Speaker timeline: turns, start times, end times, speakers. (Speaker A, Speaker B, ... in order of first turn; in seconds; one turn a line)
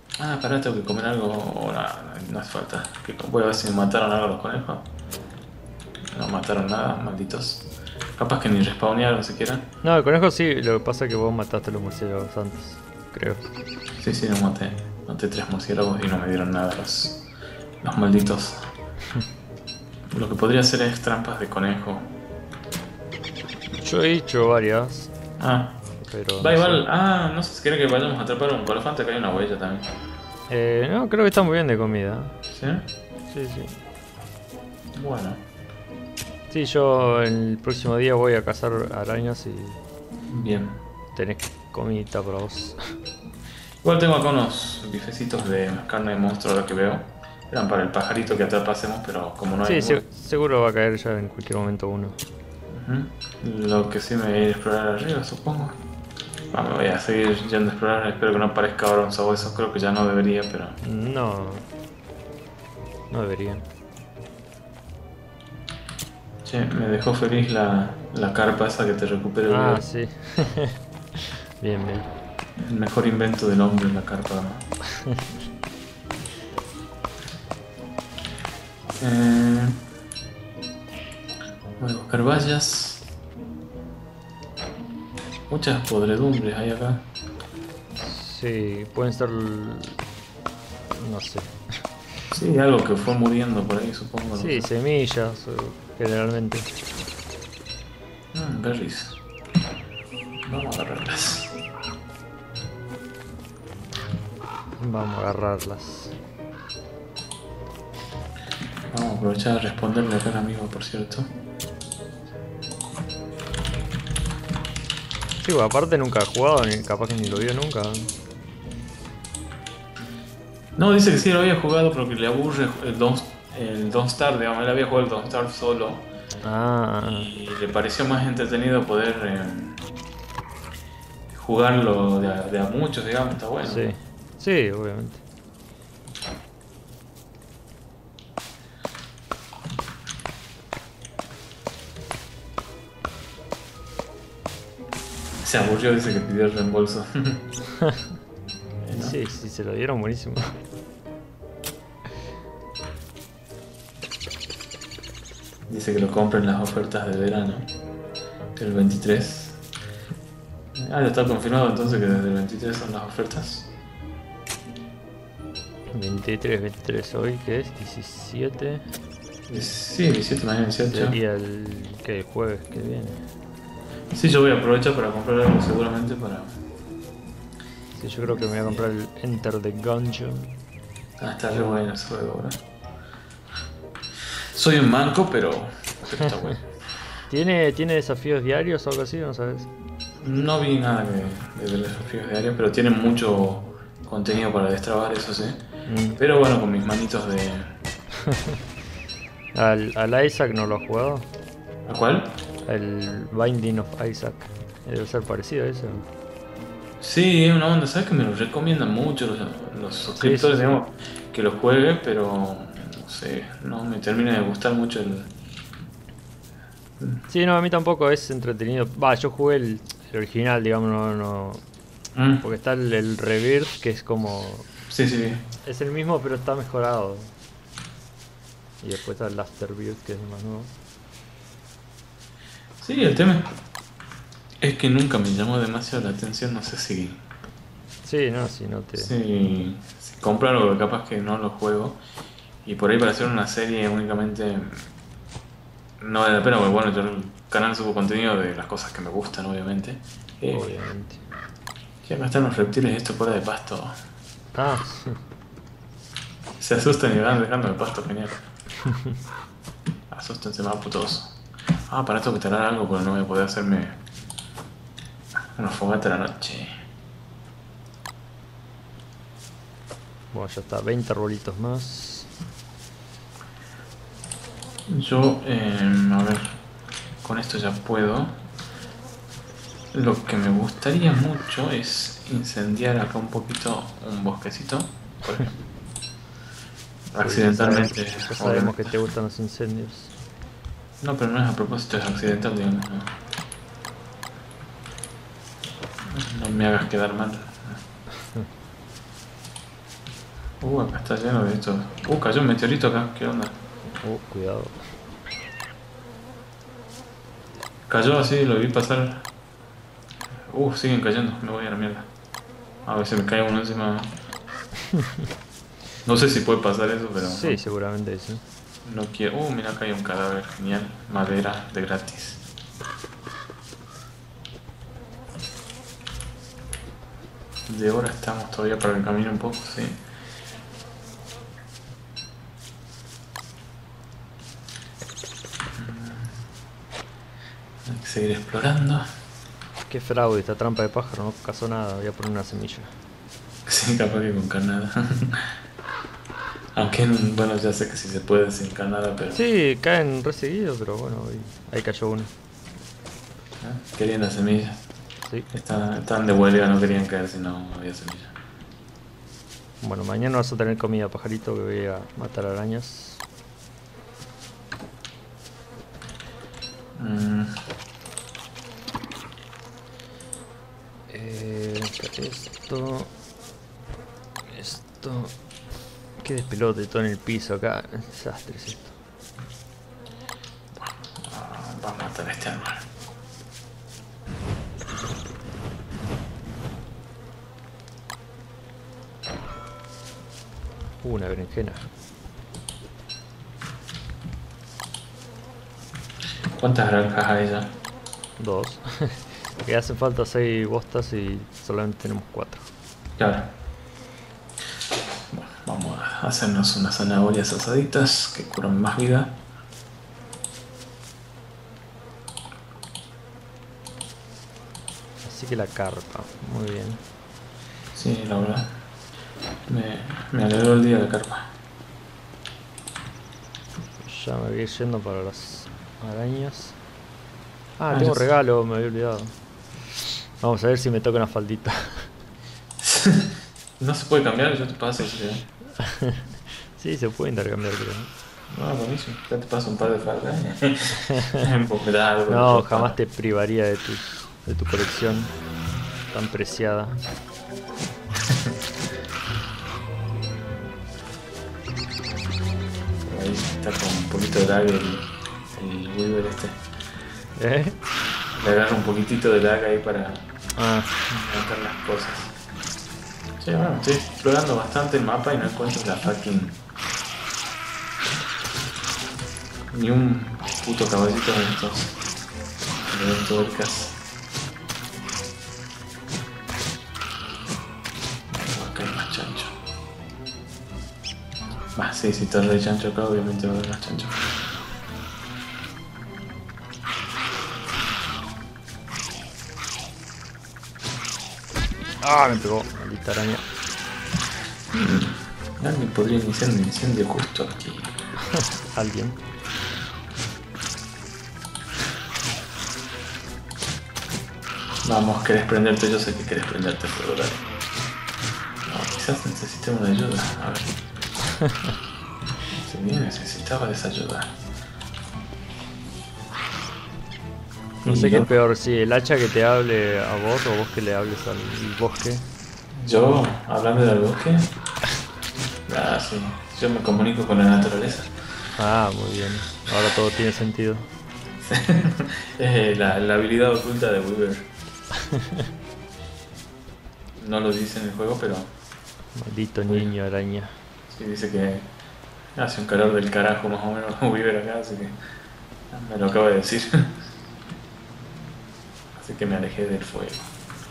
Speaker A: 0.2-4.9
Speaker A: 6.1-9.7
Speaker B: 9.8-13.4
Speaker A: 14.0-17.3
Speaker A: 17.8-18.7
Speaker A: 20.1-22.1
Speaker B: 23.8-25.1
Speaker A: 25.4-25.8
Speaker B: 26.0-26.8
Speaker A: 26.4-29.9
Speaker B: 30.5-32.4
Speaker A: 32.5-32.9
Speaker B: 33.3-33.8
Speaker A: 34.9-35.4
Speaker B: 36.5-39.8
Speaker A: 40.3-40.8
Speaker B: 41.1-42.8
Speaker A: 43.8-50.0
Speaker B: 49.6-52.2
Speaker A: 52.7-55.8
Speaker A: 56.5-60.8
Speaker B: 60.8-61.7
Speaker B: 63.1-63.7
Speaker A: 66.4-69.8
Speaker B: 69.5-72.1
Speaker A: 72.6-74.7
Speaker B: 75.0-75.2
Speaker A: 79.0-79.8
Speaker A: 81.8-83.1
Speaker A: 85.5-87.1
Speaker B: 88.0-90.0
Speaker B: 90.9-91.6
Speaker A: 92.3-94.7
Speaker B: 94.3-96.7
Speaker A: 98.3-99.2
Speaker A: 100.4-101.5
Speaker B: 104.8-106.1
Speaker A: 108.9-111.3
Speaker B: 115.4-118.1
Speaker A: 120.8-126.1
Speaker B: 126.4-127.3
Speaker A: 127.1-129.8
Speaker A: 131.3-133.9
Speaker B: 133.6-135.2
Speaker A: 145.4-147.4
Speaker A: 148.8-149.2
Speaker B: 148.9-150.5
Speaker A: 155.7-157.7
Speaker A: 158.6-159.6
Speaker A: 160.8-163.7
Speaker B: 165.9-168.9
Speaker A: 169.5-171.2
Speaker B: 170.9-173.2
Speaker A: 174.1-176.6
Speaker B: 177.9-180.6
Speaker A: 178.2-178.9
Speaker A: 181.2-182.6
Speaker B: 181.5-181.8
Speaker A: 184.5-186.6
Speaker B: 186.2-186.6
Speaker B: 187.3-189.7
Speaker A: 190.2-195.6
Speaker B: 195.9-196.2
Speaker A: 196.2-197.7
Speaker B: 198.2-198.6
Speaker B: 199.5-201.3
Speaker A: 201.9-202.4
Speaker B: 202.7-206.1
Speaker A: 207.0-215.3
Speaker B: 210.2-210.8
Speaker B: 217.3-221.6
Speaker A: 222.1-222.4
Speaker B: 222.4-224.7
Speaker A: 224.9-225.4
Speaker B: 225.6-227.3
Speaker B: 228.8-230.7
Speaker A: 232.8-233.5
Speaker A: 234.6-237.2
Speaker B: 238.0-239.1
Speaker A: 238.9-242.0
Speaker A: 242.6-244.9
Speaker A: 246.0-250.7
Speaker B: 250.5-251.2
Speaker A: 252.0-253.9
Speaker B: 254.6-255.2
Speaker A: 256.6-258.4
Speaker B: 258.8-259.2
Speaker A: 260.1-264.0
Speaker A: 265.6-266.8
Speaker B: 270.3-272.3
Speaker A: 274.9-276.5
Speaker A: 277.2-278.4
Speaker A: 279.9-285.6
Speaker A: 287.1-288.9
Speaker B: 287.2-290.1
Speaker A: 291.0-293.2
Speaker A: 296.1-297.8
Speaker A: 300.6-303.6
Speaker B: 303.9-304.8
Speaker A: 307.9-309.3
Speaker A: 310.5-312.1
Speaker A: 312.9-314.1
Speaker A: 316.1-317.6
Speaker B: 317.2-318.4
Speaker A: 318.9-322.4
Speaker A: 327.7-330.0
Speaker A: 335.8-336.4
Speaker A: 337.8-339.1
Speaker B: 339.9-342.9
Speaker A: 343.7-345.5
Speaker A: 346.7-349.4
Speaker B: 349.3-352.3
Speaker A: 353.6-354.8
Speaker A: 355.5-358.3
Speaker B: 359.8-363.2
Speaker A: 366.9-367.6
Speaker B: 371.1-373.1
Speaker B: 374.5-375.4
Speaker B: 376.2-378.9
Speaker A: 380.7-382.9
Speaker B: 391.0-391.8
Speaker A: 396.6-397.7
Speaker B: 398.4-402.7
Speaker A: 403.2-403.6
Speaker A: 405.3-409.4
Speaker B: 415.2-417.0
Speaker A: 417.9-418.8
Speaker A: 419.7-421.5
Speaker B: 424.0-426.8
Speaker B: 427.8-429.4
Speaker A: 427.9-428.2
Speaker B: 430.4-432.1
Speaker A: 432.8-435.5
Speaker B: 435.8-438.1
Speaker A: 438.5-443.0
Speaker B: 441.0-441.5
Speaker B: 442.3-445.3
Speaker B: 446.1-447.0
Speaker A: 453.1-456.6
Speaker B: 457.4-457.8
Speaker A: 458.3-460.2
Speaker B: 460.6-461.1
Speaker A: 461.1-462.3
Speaker A: 463.4-466.6
Speaker A: 469.7-471.9
Speaker A: 472.9-473.9
Speaker A: 478.3-479.6
Speaker A: 481.7-484.2
Speaker B: 492.0-493.4
Speaker A: 494.7-497.9
Speaker B: 498.3-499.2
Speaker A: 504.8-507.4
Speaker A: 508.7-510.8
Speaker B: 511.4-511.7
Speaker A: 512.5-514.4
Speaker A: 517.9-518.3
Speaker B: 517.9-522.3
Speaker A: 522.7-524.5
Speaker A: 525.7-528.1
Speaker B: 528.6-530.9
Speaker A: 531.4-534.5
Speaker B: 535.0-535.5
Speaker A: 537.2-538.5
Speaker B: 539.1-540.6
Speaker A: 540.9-541.7
Speaker A: 542.4-545.0
Speaker A: 545.7-546.9
Speaker A: 548.9-550.3